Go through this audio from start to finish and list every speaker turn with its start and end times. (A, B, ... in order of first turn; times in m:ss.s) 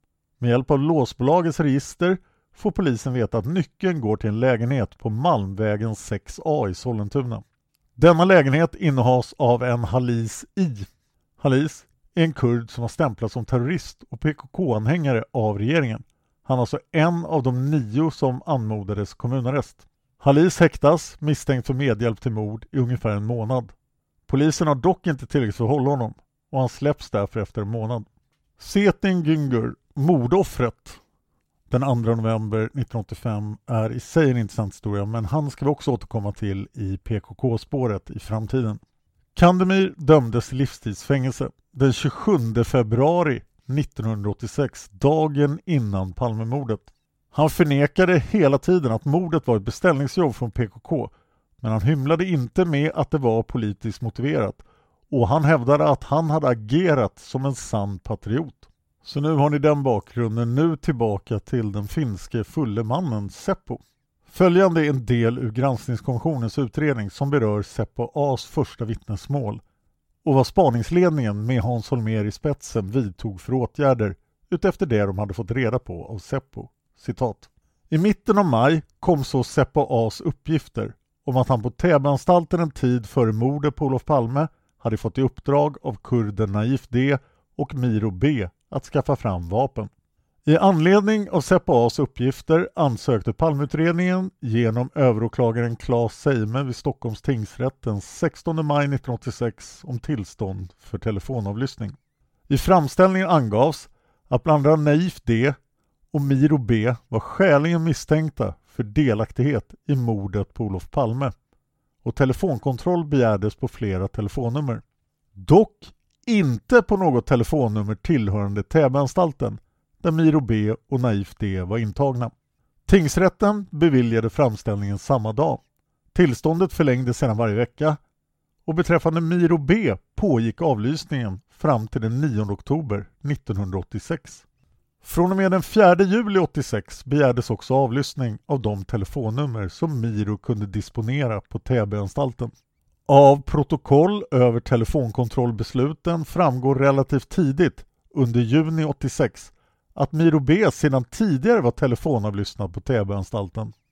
0:00.4-0:07.4 A
0:08.0-0:10.9 A
0:11.4-0:23.7 A
0:24.3-0:28.1 A
0:28.6-0:31.0 A
0:31.7-0:38.8 A
0:39.3-1:09.6 A
1:10.2-1:29.9 A
1:30.4-1:42.0 A
1:42.5-1:45.6 A
1:46.1-1:51.3 A
1:52.0-1:54.8 A
1:55.3-2:02.3 A
2:02.8-2:05.6 A
2:06.1-2:08.0 A
2:08.6-2:14.4 A
2:15.0-2:22.5 A
2:23.1-2:33.7 A